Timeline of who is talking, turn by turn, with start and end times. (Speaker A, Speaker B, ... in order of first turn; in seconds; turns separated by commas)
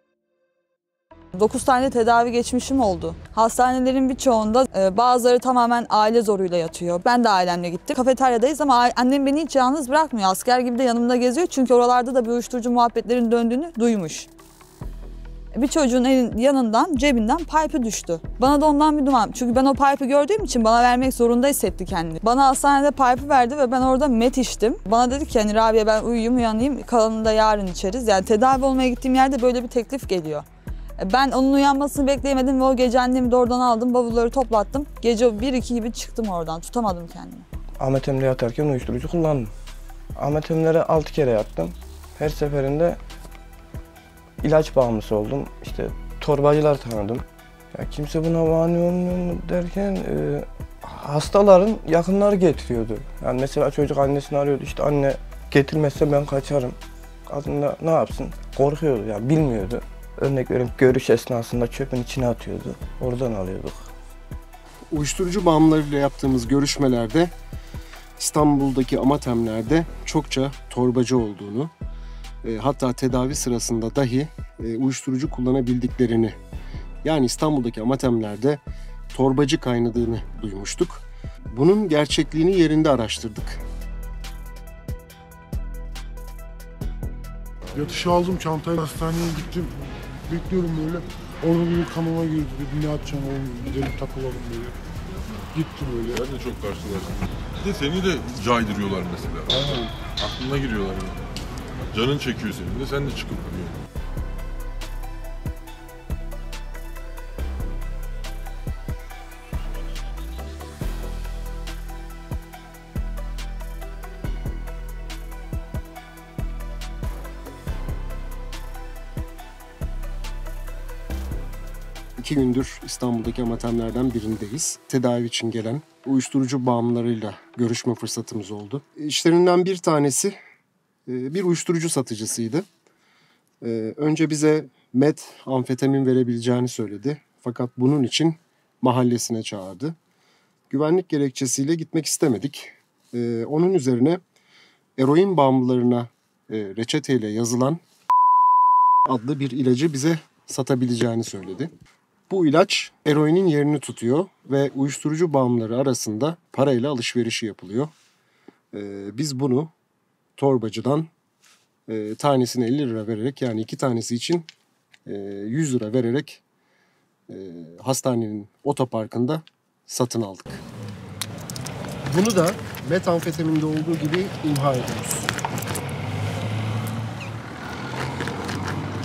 Speaker A: 1.3-14.3, Speaker A: 15.5-30.4, Speaker A: 31.0-37.5, Speaker B: 37.8-39.5, Speaker B: 40.2-43.0, Speaker B: 44.4-63.9, Speaker C: 64.9-67.3, Speaker C: 68.2-71.7, Speaker C: 72.4-76.4, Speaker C: 77.0-78.6, Speaker C: 79.1-83.6, Speaker D: 87.8-89.8, Speaker D: 90.3-94.7, Speaker D: 95.5-96.2, Speaker E: 96.1-101.2, Speaker D: 99.5-99.9, Speaker E: 101.9-103.8, Speaker C: 122.2-130.3, Speaker C: 131.1-132.6, Speaker C: 133.6-139.9, Speaker C: 140.7-144.2, Speaker C: 145.0-147.8, Speaker C: 149.1-151.7, Speaker C: 152.3-157.9, Speaker C: 158.7-159.7, Speaker C: 160.4-161.1, Speaker C: 161.9-164.5, Speaker C: 165.1-166.4, Speaker C: 167.3-170.6, Speaker C: 172.0-175.3